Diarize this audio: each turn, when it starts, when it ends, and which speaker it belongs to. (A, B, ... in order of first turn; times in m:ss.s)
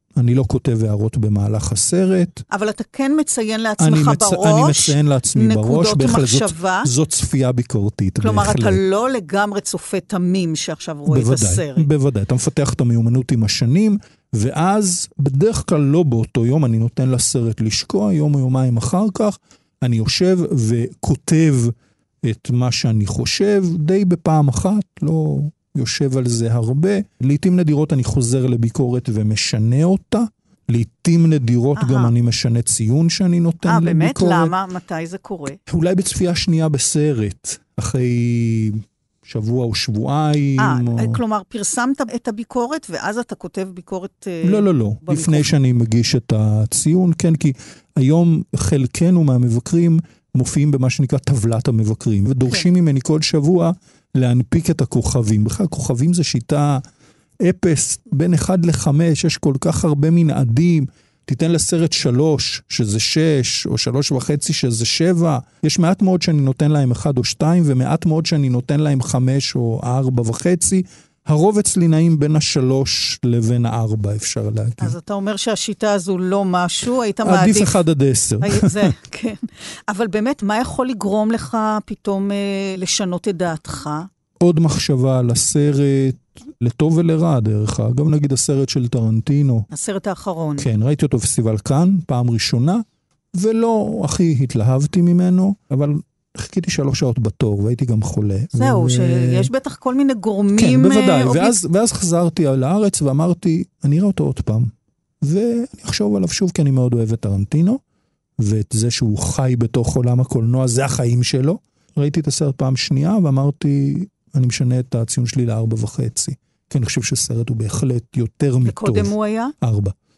0:00.2-0:02.4 A
0:02.5-0:06.9 B
0:03.8-0:08.8 A
0:08.2-0:11.9 B
0:11.1-0:34.5 A
0:31.8-0:32.1 B
0:33.6-0:35.6 B
0:35.7-0:41.2 A
0:40.6-0:45.5 B
0:44.4-0:56.8 A
0:57.4-1:15.0 A
1:14.8-1:17.8 B
1:17.2-1:18.9 A
1:18.4-1:24.1 B
1:24.4-1:29.7 A
1:29.7-1:30.7 B
1:30.6-1:39.5 A
1:38.5-1:41.6 B
1:40.6-1:47.8 A
1:48.4-1:59.9 A
1:58.6-1:59.5 B